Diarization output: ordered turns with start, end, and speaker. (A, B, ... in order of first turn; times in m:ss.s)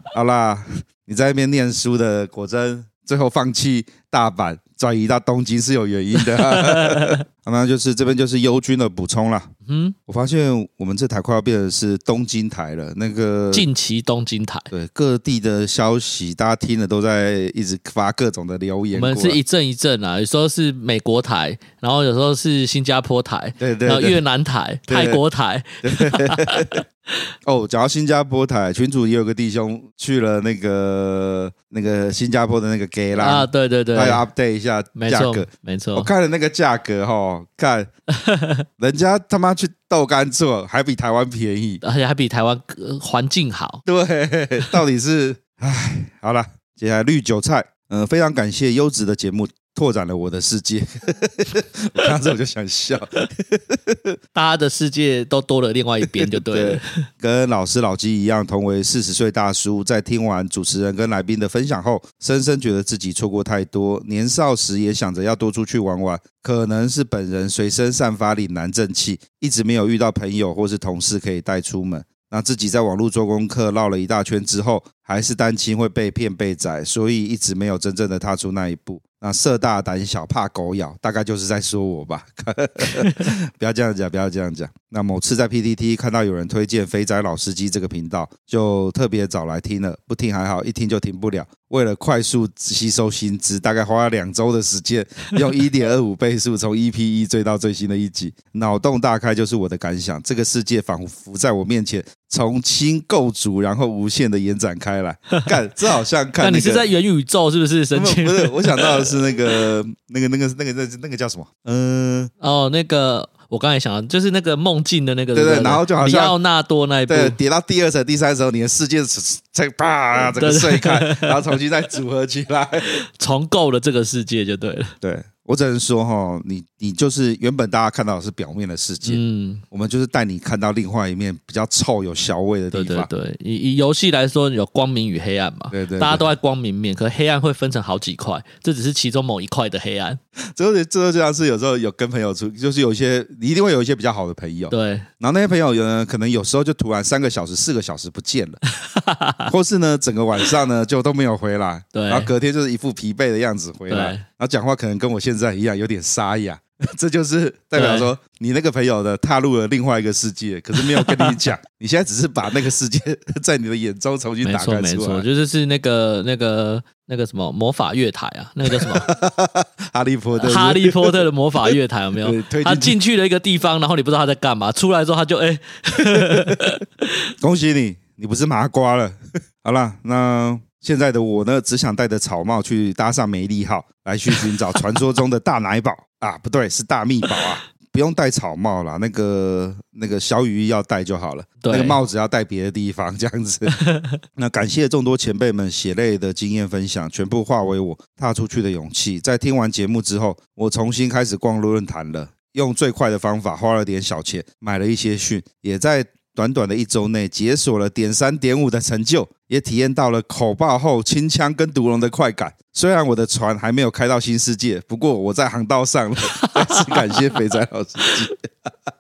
0:00.1-0:09.5 A
0:06.2-0:07.2 B
0:09.7-0:09.9 B
0:10.1-0:13.7 A
0:13.5-0:14.7 B
0:14.7-0:19.4 A
0:18.9-0:26.8 B
0:23.6-0:24.2 A
0:24.9-0:25.2 A
0:25.8-0:26.8 A
0:27.4-0:37.9 A
0:33.2-0:34.2 B
0:35.0-0:36.1 B
0:38.2-0:38.6 B
0:38.8-0:41.8 A
0:41.8-0:43.8 B
0:43.9-0:54.2 A
0:54.3-0:56.8 B
0:56.2-1:46.8 A
1:46.4-1:49.1 B
1:47.9-1:52.3 A
1:52.4-1:57.4 B
1:55.3-1:56.4 A
1:57.1-2:02.9 A
2:00.2-2:01.4 B
2:03.2-2:04.9 B
2:05.0-2:13.1 A
2:09.0-2:09.6 B
2:12.7-2:20.2 B
2:15.7-2:16.3 A
2:20.6-2:28.6 A
2:24.7-2:25.1 B
2:28.8-2:29.5 B
2:29.5-2:45.2 A
2:31.9-2:32.3 B
2:33.9-2:34.2 B
2:37.7-2:38.1 B
2:40.7-2:41.4 B
2:44.4-2:49.1 B
2:48.7-2:51.2 A
2:50.4-2:56.8 B
2:52.2-2:53.0 A
2:56.2-2:56.6 A
2:57.4-3:13.8 A
3:11.6-3:12.0 B
3:13.8-3:14.2 B
3:14.4-3:38.7 A
3:36.3-3:37.2 B